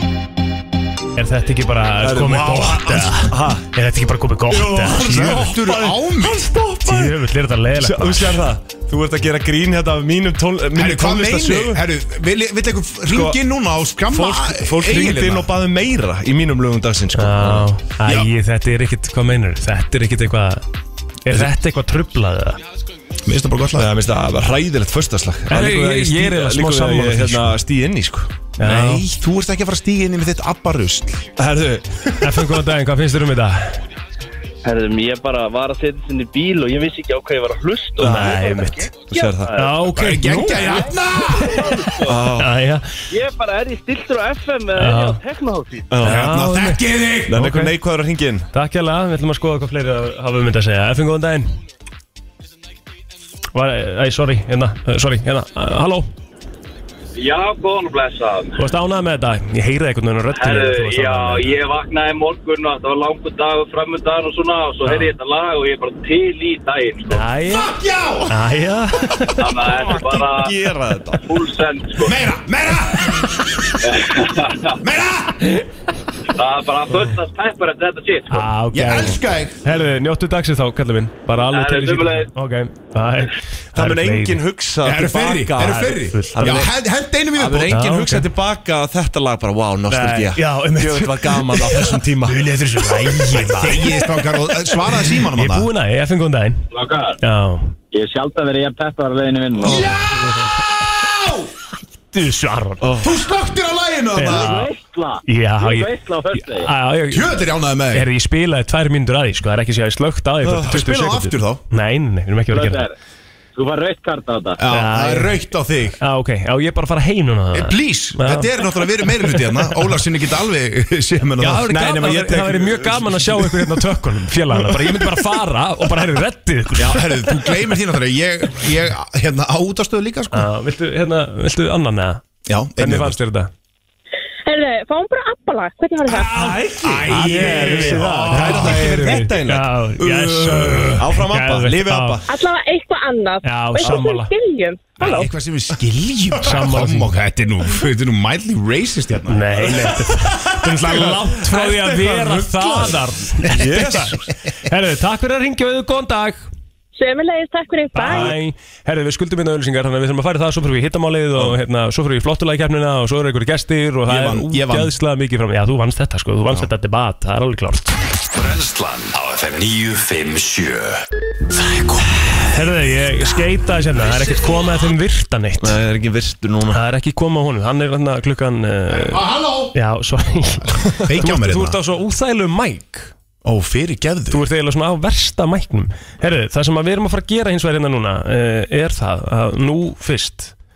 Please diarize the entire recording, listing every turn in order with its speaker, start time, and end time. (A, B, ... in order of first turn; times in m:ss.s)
0:01.2-0:05.5 A
0:02.0-0:03.7 B
0:04.5-0:07.1 B
0:05.0-0:06.5 C
0:06.8-0:08.4 A
0:07.8-0:11.8 B
0:10.8-0:15.5 C
0:13.1-0:13.4 B
0:14.1-0:17.7 B
0:17.2-0:20.6 A
0:18.0-0:18.3 C
0:21.3-0:22.6 A
0:23.2-0:23.9 C
0:23.8-0:28.4 B
0:25.5-0:27.6 A
0:28.6-0:29.1 A
0:28.6-0:31.3 C
0:31.4-0:32.6 B
0:32.2-0:33.8 A
0:34.6-0:39.8 D
0:38.0-0:38.4 B
0:38.0-0:38.9 A
0:39.1-0:39.5 B
0:39.5-0:40.8 A
0:39.9-0:41.8 C
0:40.5-0:42.1 D
0:42.0-0:42.5 B
0:42.4-0:42.9 A
0:43.1-0:45.9 D
0:44.8-0:45.2 A
0:45.9-0:46.3 B
0:46.0-0:47.4 C
0:46.0-0:47.7 A
0:47.3-0:48.5 B
0:48.5-0:51.6 A
0:53.5-0:56.1 A
0:57.2-0:58.6 D
0:58.6-1:01.6 A
1:00.3-1:07.2 D
1:04.8-1:05.1 A
1:07.1-1:07.8 A
1:07.5-1:08.4 C
1:08.3-1:09.5 A
1:09.3-1:10.6 D
1:09.9-1:11.4 B
1:11.2-1:12.2 D
1:12.0-1:13.6 C
1:13.8-1:14.8 D
1:14.8-1:15.5 C
1:16.3-1:18.5 D
1:18.3-1:24.4 A
1:18.7-1:19.6 C
1:21.5-1:22.3 D
1:23.8-1:26.7 B
1:24.8-1:27.8 C
1:26.1-1:26.6 A
1:27.4-1:32.9 B
1:27.7-1:28.3 A
1:29.9-1:34.7 A
1:33.5-1:35.7 C
1:35.3-1:36.6 A
1:36.7-1:37.2 D
1:37.2-1:37.8 A
1:37.9-1:39.8 D
1:39.6-1:39.9 B
1:39.6-1:41.5 C
1:39.7-1:40.5 A
1:42.1-1:42.9 A
1:42.8-1:43.1 B
1:43.0-1:44.7 C
1:44.1-1:44.7 A
1:44.3-1:46.7 D
1:45.3-1:52.8 A
1:47.1-1:48.1 C
1:50.6-1:51.6 C
1:52.5-1:52.9 D
1:53.6-1:54.6 D
1:54.6-1:56.0 C
1:54.7-1:55.4 A
1:56.0-1:58.6 A
1:57.5-2:02.6 C
2:01.4-2:07.5 A
2:02.0-2:03.3 B
2:06.8-2:10.5 C
2:10.3-2:12.2 A
2:12.5-2:13.2 C
2:12.8-2:13.5 A
2:14.5-2:16.3 E
2:16.1-2:19.2 C
2:16.2-2:19.7 B
2:17.1-2:22.2 A
2:20.0-2:21.0 C
2:21.0-2:22.3 B
2:22.3-2:25.3 E
2:23.4-2:24.3 A
2:25.0-2:29.7 C
2:26.4-2:27.1 A
2:29.3-2:36.5 A
2:30.3-2:32.9 B
2:32.6-2:32.9 C
2:33.5-2:34.2 B
2:37.0-2:38.3 E
2:37.9-2:47.9 A
2:44.1-2:44.9 C
2:48.3-2:52.4 F
2:52.4-2:55.8 A
2:54.0-2:54.5 F
2:55.6-2:56.8 B
2:56.7-3:03.1 A
2:58.9-2:59.7 C
3:00.9-3:01.8 C
3:03.4-3:04.4 C
3:04.3-3:10.5 A